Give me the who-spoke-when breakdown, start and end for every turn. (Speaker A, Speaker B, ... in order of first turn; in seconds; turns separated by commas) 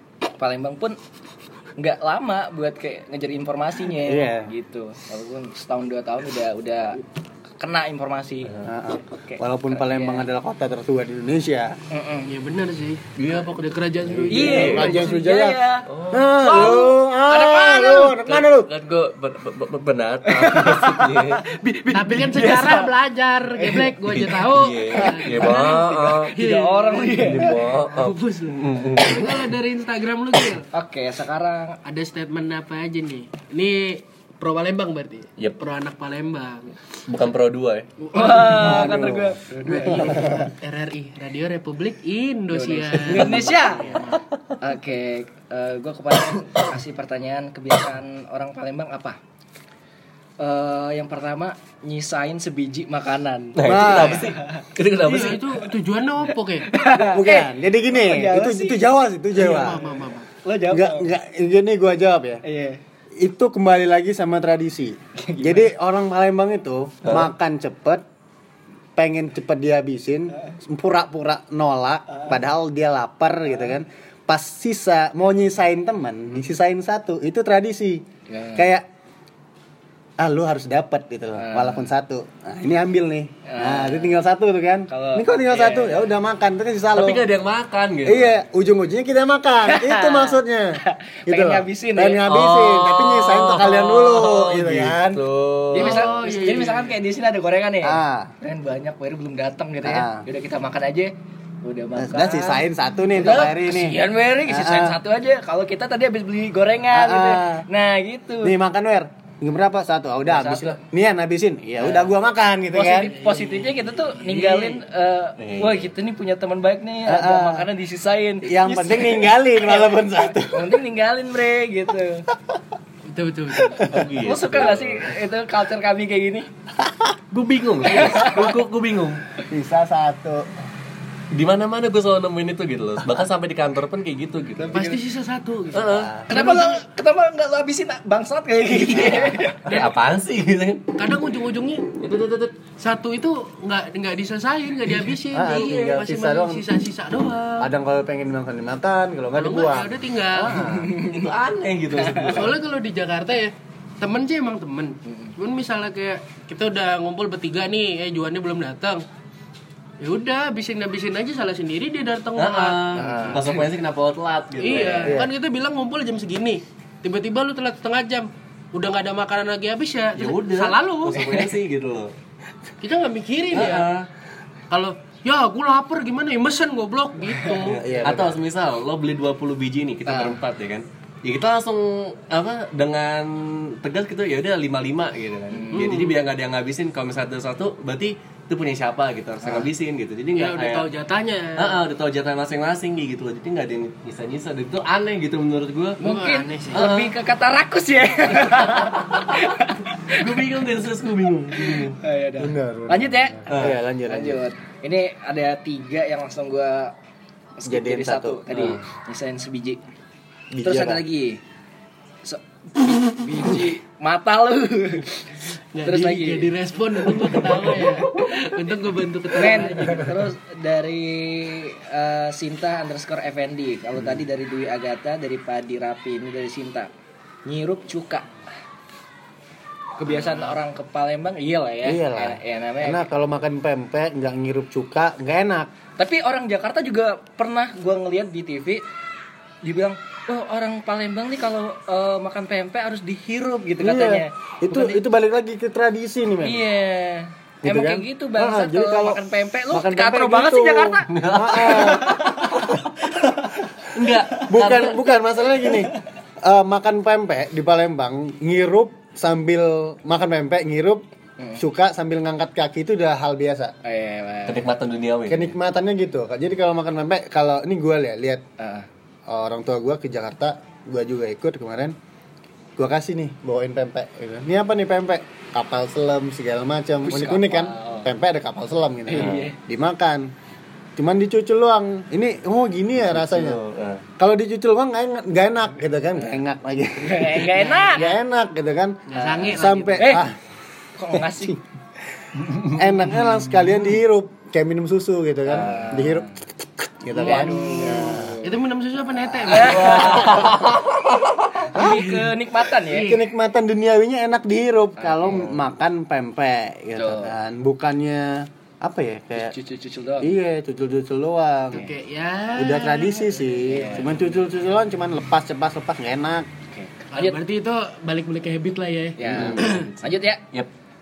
Speaker A: 0.4-1.0, Speaker A: 1.8-7.0, Speaker B: 4.0-4.5, Speaker A: 7.6-8.5, Speaker B: 8.7-11.8, Speaker A: 9.2-10.3, Speaker A: 11.9-12.3, Speaker C: 12.3-15.1, Speaker D: 13.2-13.6, Speaker B: 14.1-18.7, Speaker D: 14.3-14.9, Speaker A: 14.3-15.9, Speaker D: 15.9-16.7, Speaker A: 16.4-18.3, Speaker D: 18.3-21.5, Speaker A: 20.5-20.8, Speaker C: 21.6-30.7, Speaker A: 21.9-22.9, Speaker A: 23.6-27.6, Speaker D: 24.1-26.4, Speaker D: 27.2-29.5, Speaker A: 30.7-31.8, Speaker C: 31.9-36.8, Speaker D: 37.1-37.9, Speaker C: 38.0-38.9, Speaker A: 38.1-40.4, Speaker B: 38.4-40.5, Speaker C: 40.6-44.2, Speaker A: 42.5-44.0, Speaker D: 43.2-43.5, Speaker A: 44.6-49.2, Speaker A: 50.4-54.6, Speaker D: 53.6-55.7, Speaker B: 53.6-54.3, Speaker C: 55.0-56.7, Speaker A: 56.6-58.8, Speaker B: 57.0-59.8, Speaker C: 59.3-60.3, Speaker A: 59.4-61.1, Speaker B: 60.7-62.4, Speaker A: 62.4-62.8, Speaker B: 63.2-68.0, Speaker A: 65.2-65.7, Speaker D: 67.0-67.3, Speaker B: 69.0-78.9, Speaker A: 78.3-78.7, Speaker B: 80.2-87.3, Speaker A: 81.4-81.9, Speaker A: 83.5-84.2, Speaker A: 84.9-86.1, Speaker D: 86.9-88.3, Speaker B: 88.0-95.2, Speaker A: 89.7-92.3, Speaker D: 92.3-96.1, Speaker A: 95.7-101.1, Speaker C: 95.8-96.9, Speaker B: 97.8-98.3, Speaker B: 99.8-100.3, Speaker A: 101.6-108.5, Speaker B: 102.0-105.0, Speaker B: 106.9-107.7, Speaker B: 108.4-113.2, Speaker A: 110.3-110.8, Speaker A: 111.8-112.1, Speaker A: 112.7-122.3, Speaker C: 113.0-114.5, Speaker D: 115.4-115.9, Speaker B: 117.1-117.7, Speaker B: 118.4-120.8, Speaker C: 123.1-123.9, Speaker D: 123.8-125.1, Speaker A: 124.2-126.5, Speaker D: 127.3-129.2, Speaker A: 127.9-128.5, Speaker B: 129.5-130.5, Speaker D: 131.3-134.9, Speaker A: 134.6-135.0, Speaker C: 134.7-136.8, Speaker D: 135.7-136.1, Speaker B: 135.9-136.3, Speaker A: 136.3-139.8, Speaker D: 138.7-140.9, Speaker C: 141.0-147.7, Speaker B: 145.3-146.6, Speaker B: 147.6-150.9, Speaker C: 149.4-150.6, Speaker A: 150.6-151.3, Speaker D: 151.0-152.6, Speaker A: 151.9-152.5, Speaker C: 152.3-159.0, Speaker A: 155.1-155.3, Speaker C: 160.0-163.4, Speaker D: 162.4-165.2, Speaker B: 163.0-163.4, Speaker C: 164.6-171.5, Speaker B: 165.0-165.3, Speaker D: 170.2-172.1, Speaker C: 172.8-173.9, Speaker D: 173.5-174.1, Speaker C: 174.7-177.8, Speaker B: 177.7-178.4, Speaker D: 177.9-190.9, Speaker A: 180.1-180.4, Speaker A: 185.5-185.9, Speaker C: 185.7-186.2, Speaker C: 190.3-191.8, Speaker D: 191.6-196.0, Speaker C: 196.0-196.9, Speaker A: 196.0-200.4, Speaker D: 196.7-197.1, Speaker D: 198.3-199.4, Speaker D: 200.1-202.0, Speaker A: 201.6-206.9, Speaker B: 202.4-204.4, Speaker D: 203.5-203.8, Speaker A: 207.6-209.8, Speaker B: 207.7-208.8, Speaker D: 208.5-208.8, Speaker B: 210.5-211.0, Speaker A: 210.6-211.4, Speaker A: 212.2-215.3, Speaker C: 215.7-220.2, Speaker A: 215.8-216.5, Speaker A: 217.2-217.9, Speaker A: 219.3-226.9, Speaker A: 227.4-228.3, Speaker A: 230.0-233.1, Speaker B: 231.8-235.7, Speaker A: 236.0-238.8, Speaker A: 239.6-245.0, Speaker B: 243.8-246.6, Speaker A: 246.4-252.5, Speaker B: 247.6-252.2, Speaker D: 251.1-252.8, Speaker D: 253.9-255.0, Speaker B: 254.4-261.0, Speaker A: 261.4-261.6, Speaker B: 261.6-263.7, Speaker A: 263.8-264.7, Speaker D: 264.5-265.6, Speaker B: 265.3-268.4, Speaker A: 268.6-268.9, Speaker B: 269.3-271.9, Speaker B: 272.8-280.3, Speaker A: 277.1-278.1, Speaker A: 279.1-279.6, Speaker B: 281.0-283.6, Speaker D: 283.1-284.0, Speaker B: 284.2-290.4, Speaker A: 287.0-288.2, Speaker C: 287.6-287.9, Speaker C: 289.1-290.2, Speaker A: 289.3-290.3, Speaker A: 291.0-291.6, Speaker D: 292.4-292.8, Speaker B: 292.7-298.4, Speaker A: 295.5-296.3, Speaker D: 295.5-295.9, Speaker A: 297.1-298.6, Speaker C: 297.1-300.3, Speaker A: 299.5-300.5, Speaker D: 299.5-301.5, Speaker B: 300.0-300.5, Speaker A: 301.7-303.2, Speaker B: 301.7-302.2, Speaker C: 301.8-302.3, Speaker C: 302.9-303.2, Speaker B: 302.9-309.6, Speaker A: 305.0-305.6, Speaker A: 307.0-307.4, Speaker A: 309.4-310.3, Speaker B: 310.2-311.8, Speaker C: 311.7-314.1, Speaker B: 312.6-316.5, Speaker A: 313.6-314.2, Speaker A: 316.7-317.4, Speaker C: 317.1-319.9, Speaker A: 319.2-320.4, Speaker D: 319.3-320.7, Speaker B: 319.3-319.6